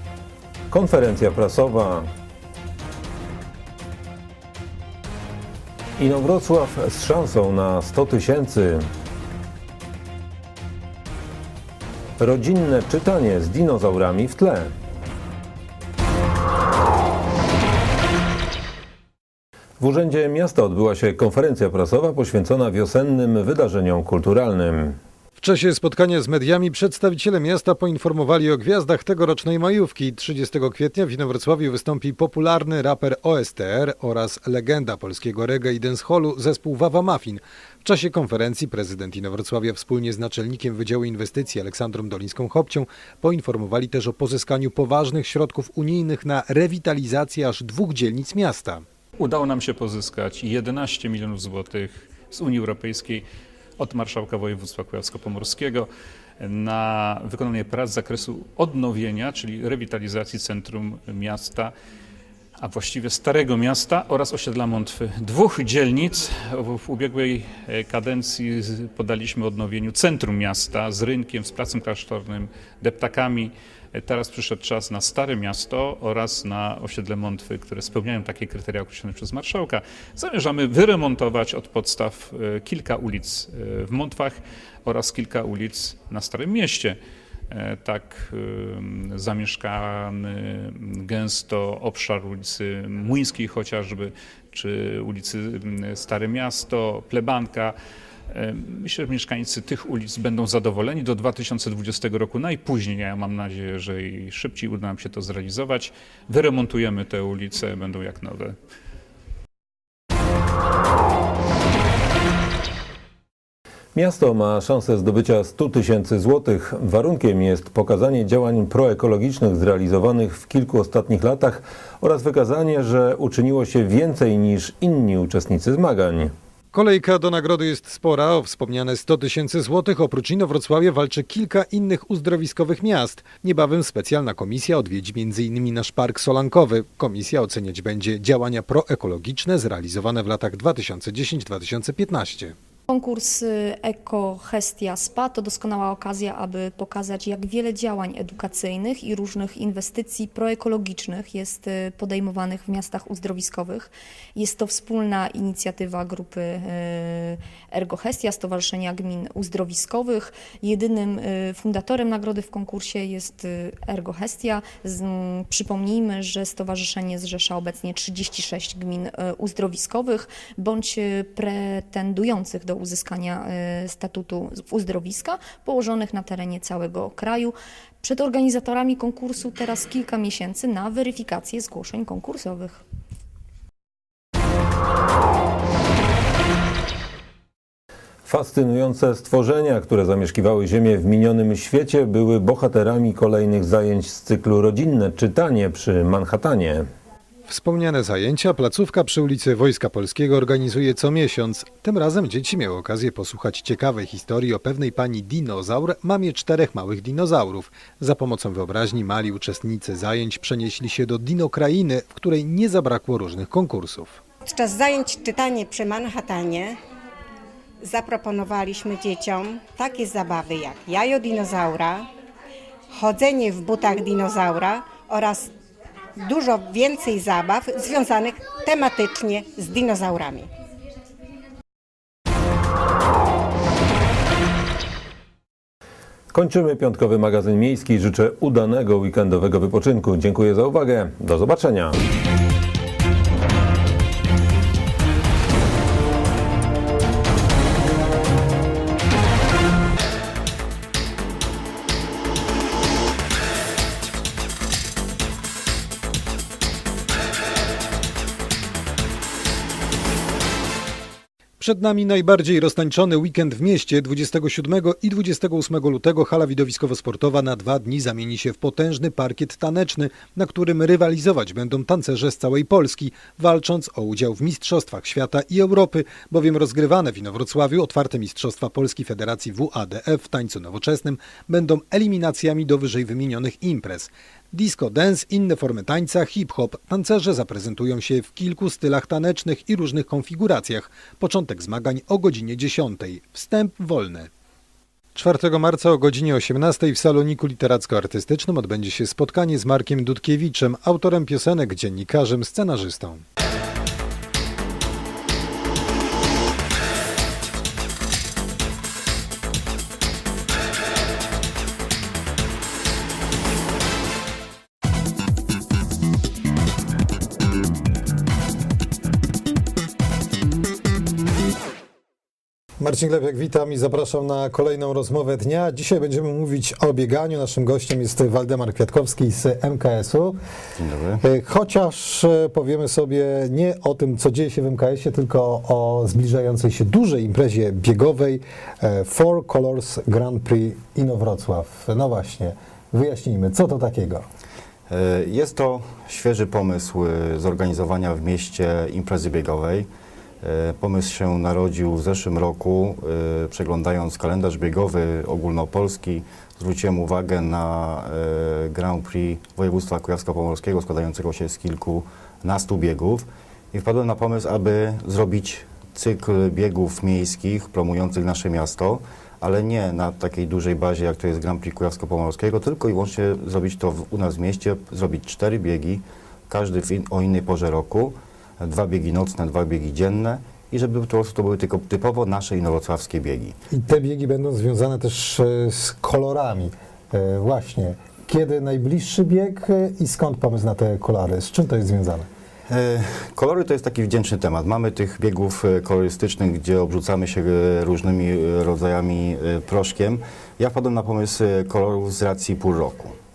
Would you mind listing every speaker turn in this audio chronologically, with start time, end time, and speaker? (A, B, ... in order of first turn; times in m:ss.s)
0:00.7-0:02.1 A
0:06.0-0:08.8 A
0:12.2-0:14.7 A
0:19.8-0:25.0 A
0:25.4-0:48.8 B
0:49.2-0:53.2 C
0:53.8-0:55.9 C
0:56.4-1:01.7 C
1:02.6-1:27.0 C
1:27.5-1:37.7 C
1:38.3-1:48.6 C
1:54.0-2:06.3 A
2:06.7-2:22.6 B
2:22.9-3:02.8 D
3:08.3-3:16.9 A
3:17.5-3:34.2 B
3:34.6-3:36.6 E
3:37.9-3:42.1 E
3:43.0-3:45.5 E
3:46.2-3:50.5 E
3:56.3-4:02.0 A
4:21.6-4:54.3 B
4:55.2-5:03.2 B
5:22.8-5:30.4 F
5:30.8-5:31.2 G
5:31.2-5:44.3 F
5:44.9-5:49.9 G
5:50.4-6:23.6 G
6:23.7-6:32.3 F
6:32.7-6:43.1 G